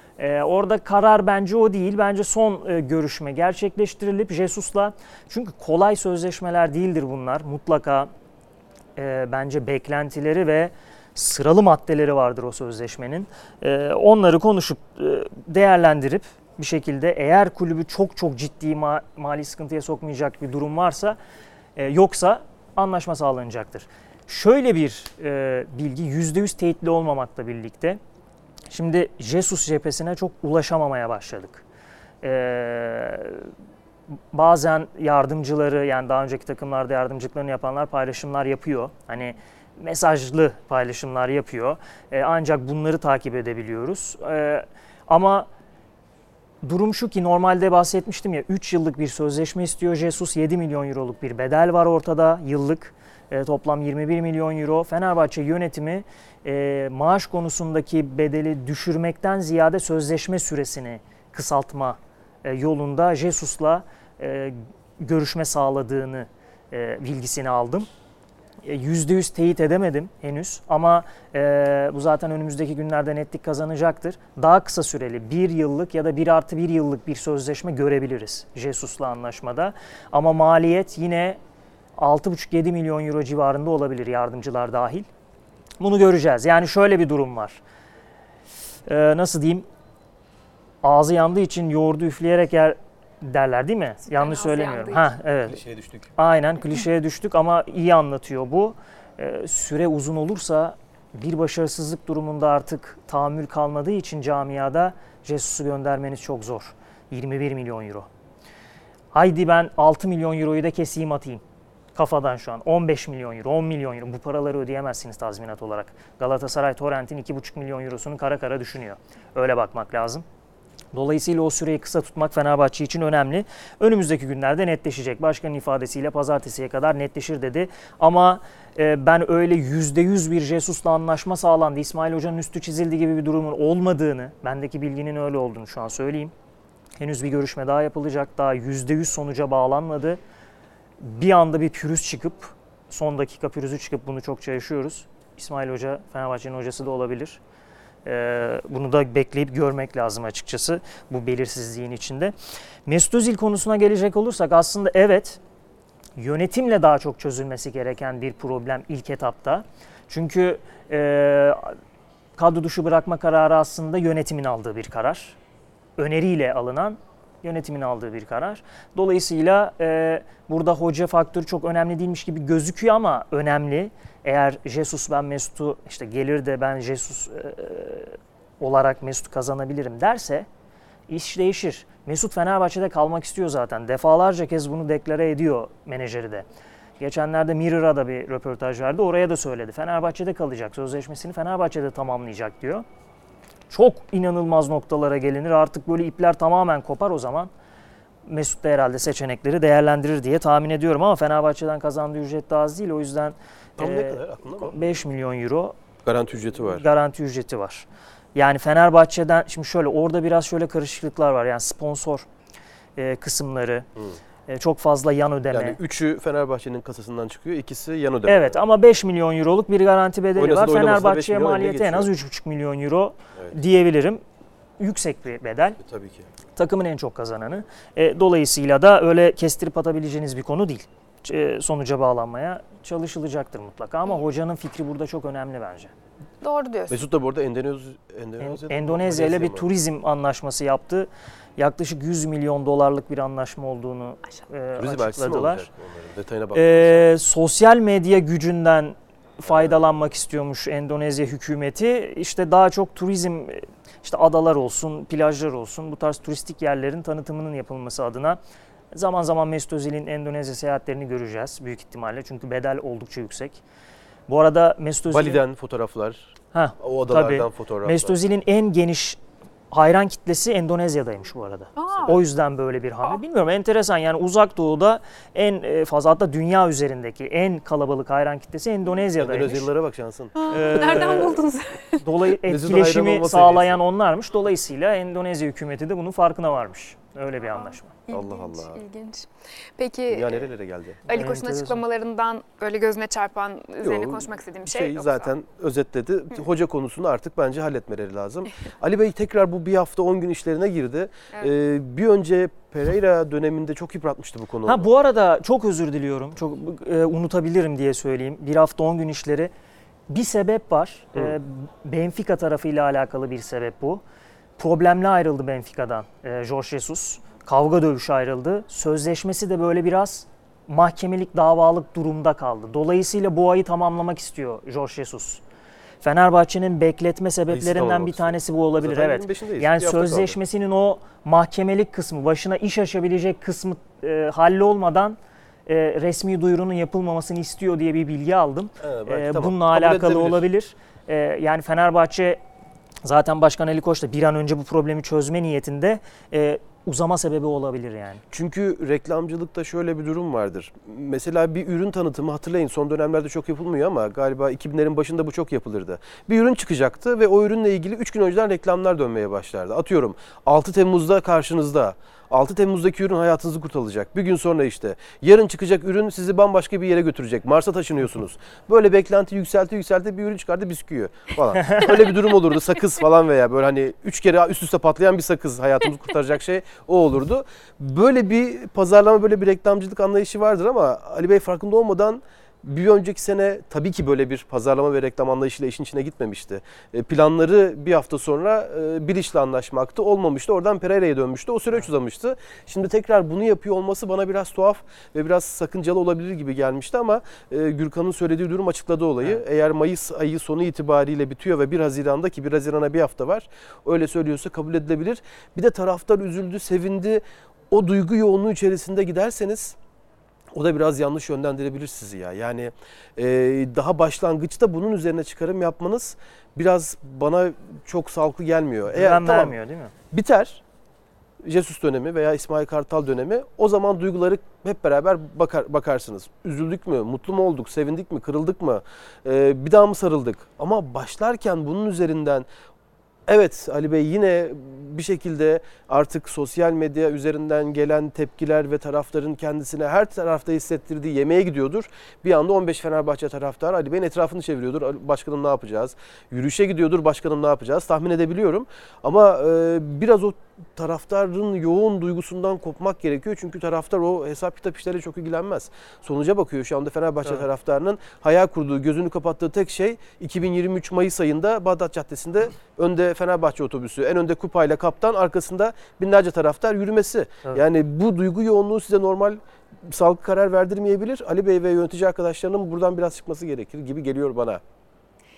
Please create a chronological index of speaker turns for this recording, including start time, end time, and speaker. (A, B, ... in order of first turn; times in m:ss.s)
0:00.2-0:08.1 A
0:09.0-0:21.2 A
0:21.8-0:28.0 A
0:28.7-0:31.6 A
0:32.2-0:33.5 A
0:34.3-0:45.5 A
0:46.6-1:07.9 A
1:08.6-1:21.4 A
1:22.0-1:25.1 A
1:25.8-1:27.6 A
1:28.9-1:29.7 A
1:30.8-1:35.6 A
1:34.1-1:35.1 B
1:35.5-1:36.1 C
1:36.2-1:48.1 A
1:49.1-1:51.4 A
1:52.0-2:00.2 A
2:00.9-2:16.3 A
2:17.0-2:20.2 A
2:21.0-2:27.4 A
2:28.0-2:32.3 A
2:32.9-2:35.4 A
2:36.2-2:41.8 A
2:42.4-2:45.4 A
2:46.0-3:00.5 A
3:01.1-3:06.5 A
3:07.0-3:12.8 A
3:13.7-3:17.5 A
3:18.3-3:25.8 A
3:23.8-3:24.8 C
3:26.0-3:26.9 C
3:26.7-3:32.3 A
3:33.0-3:33.9 A
3:34.5-3:35.8 A
3:35.5-3:38.6 C
3:38.3-3:44.2 A
3:40.4-3:42.1 C
3:44.8-3:45.8 A
3:45.8-3:46.3 C
3:46.6-3:55.9 A
3:56.4-3:57.0 B
3:56.9-3:59.7 C
3:58.4-4:05.7 A
4:04.8-4:07.1 C
4:06.5-4:18.4 A
4:09.5-4:09.8 C
4:18.9-4:23.6 A
4:24.3-4:25.4 A
4:25.1-4:28.2 C
4:26.5-4:29.2 A
4:29.7-4:39.7 A
4:31.8-4:32.2 B
4:39.2-4:41.2 C
4:40.4-4:42.0 B
4:40.5-4:41.4 A
4:42.0-4:48.0 A
4:42.4-4:43.8 C
4:47.6-4:50.5 B
4:48.1-4:48.8 C
4:50.1-4:51.0 C
4:51.1-4:55.3 B
4:51.1-4:51.8 A
4:53.8-5:04.9 C
5:04.7-5:09.5 A
5:10.1-5:14.0 A
5:14.6-5:25.4 A
5:26.0-5:42.4 A
5:27.5-5:30.4 C
5:38.8-5:40.4 C
5:43.0-5:48.2 A
5:48.3-6:49.8 C
6:11.6-6:12.0 A
6:50.5-6:59.6 C
6:58.9-6:59.9 A
7:00.1-7:00.6 C
7:01.4-7:12.5 C
7:13.3-7:54.6 C